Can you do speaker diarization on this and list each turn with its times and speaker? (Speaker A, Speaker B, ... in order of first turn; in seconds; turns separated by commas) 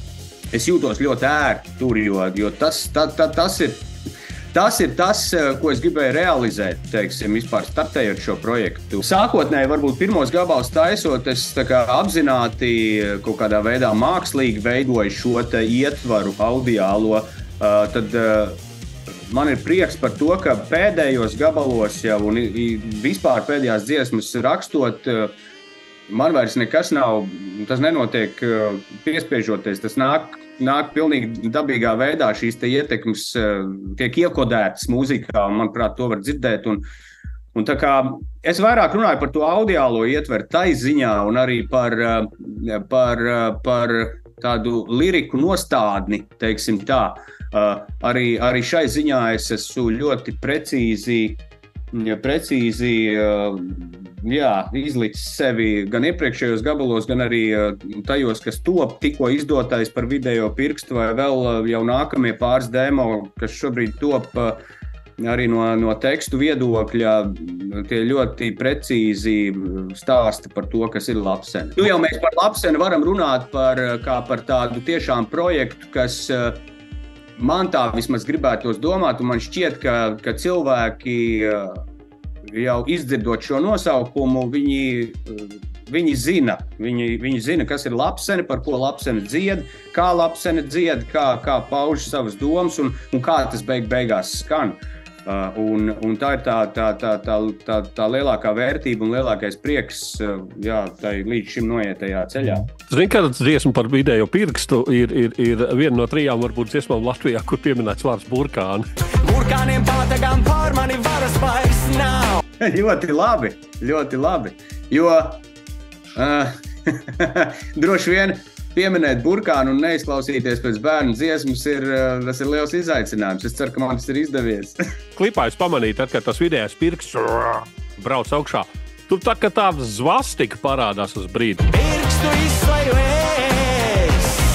Speaker A: 0.5-3.9, Speaker A: 4.5-18.6, Speaker A: 19.3-25.3, Speaker A: 26.1-36.8, Speaker A: 37.5-51.4, Speaker A: 51.9-64.6, Speaker A: 65.2-76.6, Speaker A: 77.4-81.8, Speaker A: 82.5-102.7, Speaker B: 102.9-108.9, Speaker C: 109.2-112.4, Speaker A: 112.6-115.4, Speaker A: 116.2-124.8, Speaker B: 125.2-131.6, Speaker C: 131.7-134.4